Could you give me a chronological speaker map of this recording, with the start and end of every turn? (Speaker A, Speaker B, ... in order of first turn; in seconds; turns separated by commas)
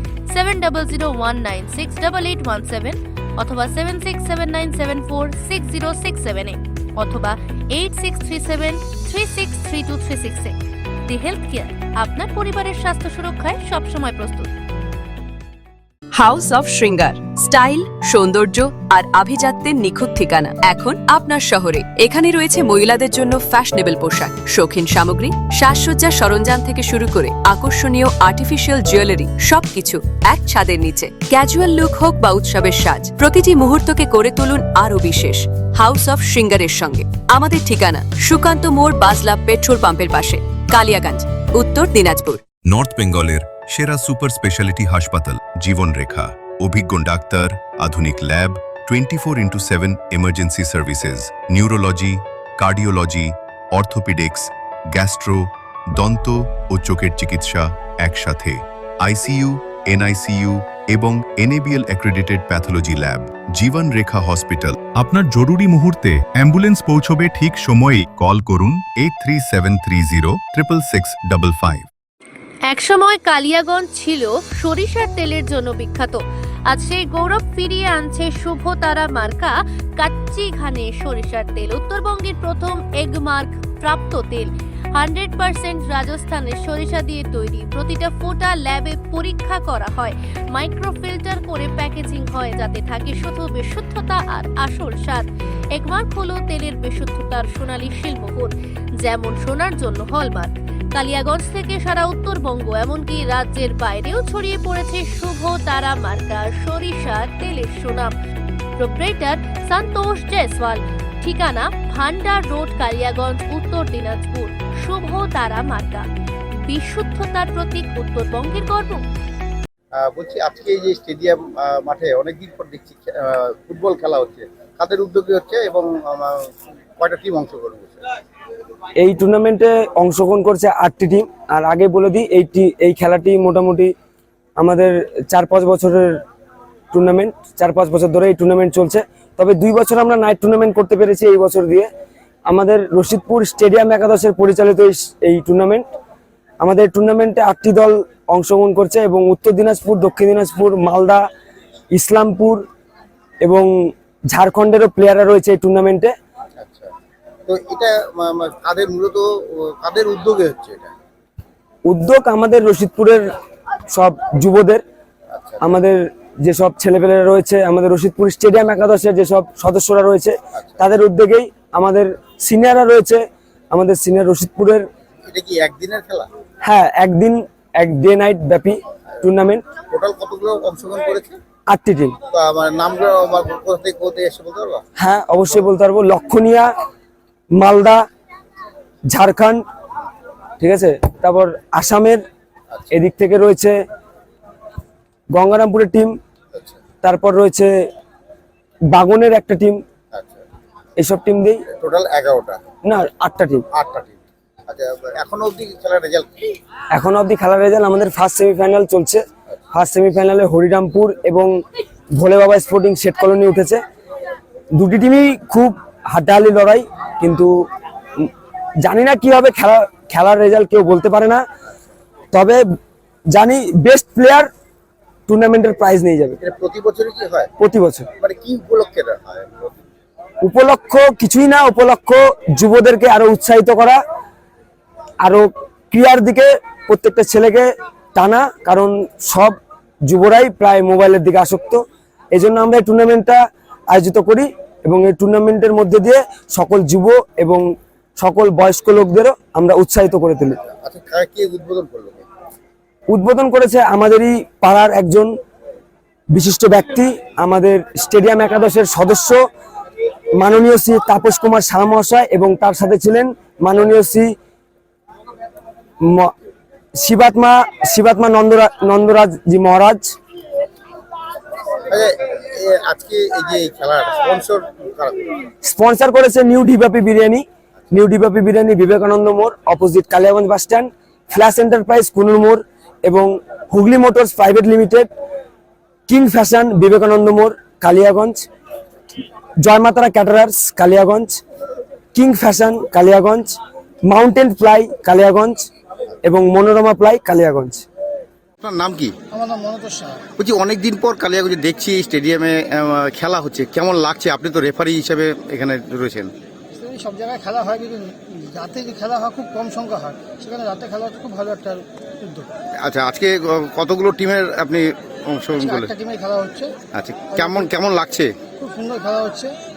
Speaker A: 0.3-10.5, Speaker A: 11.1-14.5, Speaker B: 16.1-42.4, Speaker C: 42.6-71.9, Speaker A: 72.7-76.2, Speaker A: 76.7-84.5, Speaker A: 85.0-95.2, Speaker A: 95.8-98.5, Speaker A: 99.0-108.1, Speaker A: 108.8-116.0, Speaker A: 116.7-119.0, Speaker D: 120.0-126.3, Speaker D: 127.0-128.0, Speaker E: 129.0-133.9, Speaker E: 134.6-136.1, Speaker E: 136.9-141.9, Speaker E: 142.5-145.9, Speaker E: 146.6-151.2, Speaker E: 151.9-152.6, Speaker E: 153.4-153.7, Speaker E: 154.3-156.1, Speaker D: 156.6-156.9, Speaker D: 157.5-160.9, Speaker E: 161.8-163.3, Speaker E: 163.9-164.8, Speaker D: 165.3-165.7, Speaker E: 165.6-173.2, Speaker D: 170.6-170.8, Speaker E: 173.7-174.8, Speaker D: 175.3-176.3, Speaker E: 176.6-179.6, Speaker D: 179.9-181.4, Speaker E: 181.7-182.2, Speaker D: 182.3-184.8, Speaker E: 185.0-186.7, Speaker E: 187.6-188.0, Speaker E: 189.1-189.6, Speaker E: 190.6-192.2, Speaker E: 192.9-193.7, Speaker E: 195.3-196.1, Speaker D: 196.5-196.8, Speaker E: 197.0-197.7, Speaker E: 198.9-199.8, Speaker D: 200.1-200.4, Speaker E: 201.0-201.6, Speaker D: 201.7-202.6, Speaker E: 202.8-203.6, Speaker D: 203.7-204.2, Speaker D: 204.7-206.3, Speaker E: 206.9-209.2, Speaker E: 209.7-211.5, Speaker E: 212.2-213.8, Speaker E: 214.8-217.5, Speaker E: 218.8-221.4, Speaker E: 222.3-222.6, Speaker E: 223.3-224.5, Speaker E: 225.3-226.4, Speaker D: 226.4-227.5, Speaker E: 227.6-228.1, Speaker D: 228.2-229.8, Speaker E: 230.4-234.0, Speaker E: 235.2-239.6, Speaker E: 240.1-241.8, Speaker E: 242.3-243.4, Speaker E: 243.9-247.6, Speaker E: 248.2-250.6, Speaker D: 250.8-252.2, Speaker E: 253.1-255.3, Speaker E: 256.3-259.4, Speaker E: 260.4-264.3, Speaker E: 266.1-266.3, Speaker E: 267.0-270.1, Speaker D: 271.9-275.3, Speaker E: 275.6-285.1, Speaker E: 286.1-288.4, Speaker E: 289.6-291.4, Speaker E: 292.1-293.5, Speaker E: 294.1-295.7, Speaker E: 296.2-297.8, Speaker D: 298.6-299.1, Speaker F: 299.3-300.2, Speaker D: 300.4-306.3, Speaker F: 306.8-312.4, Speaker D: 312.8-316.0, Speaker F: 315.8-316.7, Speaker D: 316.9-318.3, Speaker F: 318.6-319.5